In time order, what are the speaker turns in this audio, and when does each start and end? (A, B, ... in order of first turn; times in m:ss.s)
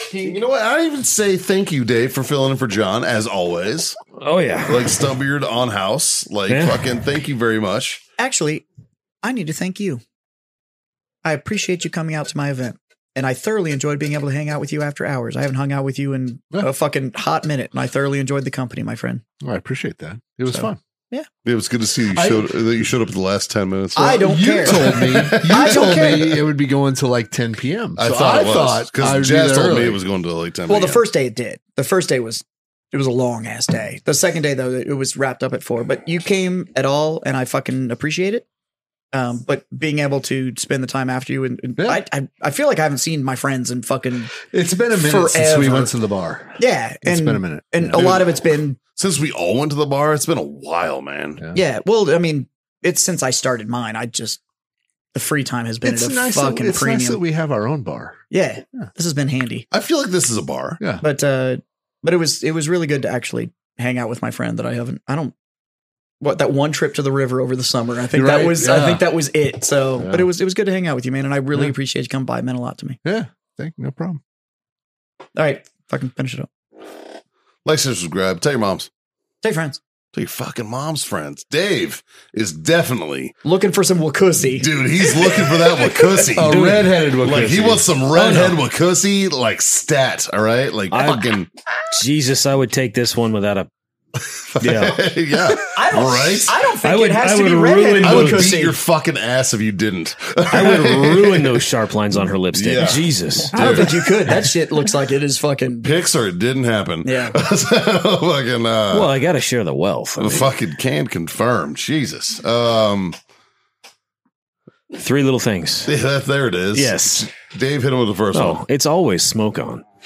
0:00.1-0:04.0 A
0:04.2-0:05.0 B
0:04.6-0:08.0 A
0:06.5-0:06.9 B
0:08.2-0:08.6 C
0:09.2-0:10.0 C
0:11.2-0:19.2 C
0:19.4-0:20.8 D
0:20.5-0:21.3 C
0:21.4-0:26.3 A
0:22.1-0:22.5 D
0:24.0-0:26.4 C
0:24.0-0:30.0 D
0:28.0-0:31.0 A
0:30.7-0:38.4 C
0:39.1-0:44.3 C
0:41.8-0:42.0 D
0:44.4-0:48.2 D
0:44.9-0:45.9 C
0:46.6-0:48.8 C
0:47.9-0:48.3 A
0:48.9-0:51.4 A
0:51.5-0:54.4 C
0:55.1-0:57.2 C
0:55.8-0:58.2 D
0:58.3-0:59.7 C
0:59.7-1:00.8 A
1:01.0-1:05.4 C
1:06.2-1:13.0 C
1:08.1-1:09.1 D
1:10.0-1:10.3 D
1:13.0-1:14.2 D
1:15.4-1:16.5 C
1:17.6-1:18.9 A
1:19.4-1:19.8 C
1:20.1-1:23.4 A
1:23.4-1:24.7 C
1:24.5-1:31.5 A
1:26.3-1:27.8 D
1:26.5-1:27.0 B
1:28.2-1:28.6 B
1:30.9-1:31.4 B
1:31.9-1:33.7 B
1:34.6-1:36.6 A
1:34.6-1:35.1 B
1:35.8-1:38.8 C
1:36.8-1:38.5 B
1:38.0-1:41.6 A
1:40.5-1:43.9 B
1:42.5-1:44.3 A
1:43.5-1:45.9 C
1:45.8-1:49.1 A
1:47.0-1:47.4 C
1:48.9-1:50.5 B
1:50.2-1:53.2 A
1:54.9-1:55.9 B
1:55.9-1:58.6 A
1:56.7-1:57.3 B
1:58.3-1:59.8 B